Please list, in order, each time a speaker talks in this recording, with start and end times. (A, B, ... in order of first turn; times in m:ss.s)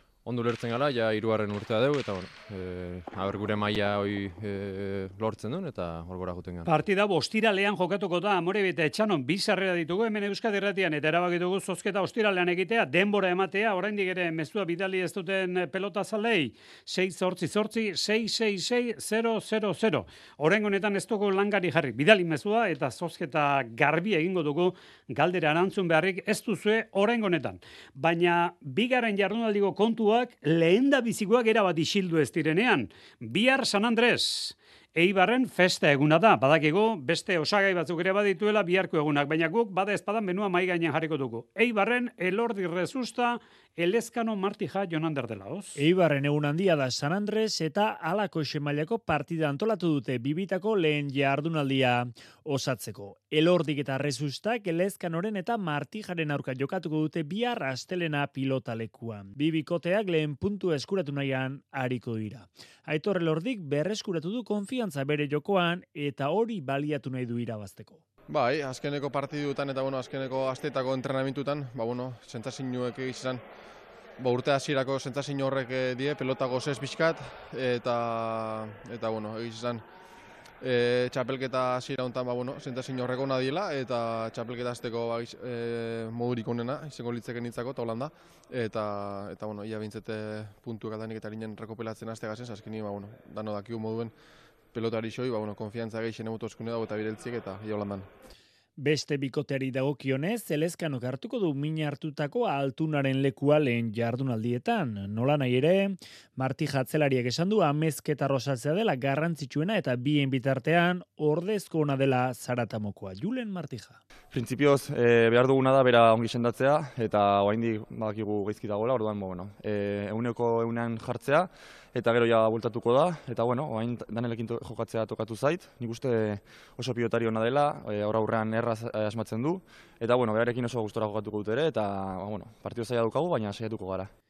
0:00.2-0:06.7 A
0:06.6-0:45.8 B
0:45.8-1:08.0 C
1:08.3-1:13.4 D
1:14.2-1:19.8 D
1:20.6-1:34.1 D
1:34.7-1:38.1 D
1:38.8-1:54.0 C
1:54.3-2:14.1 E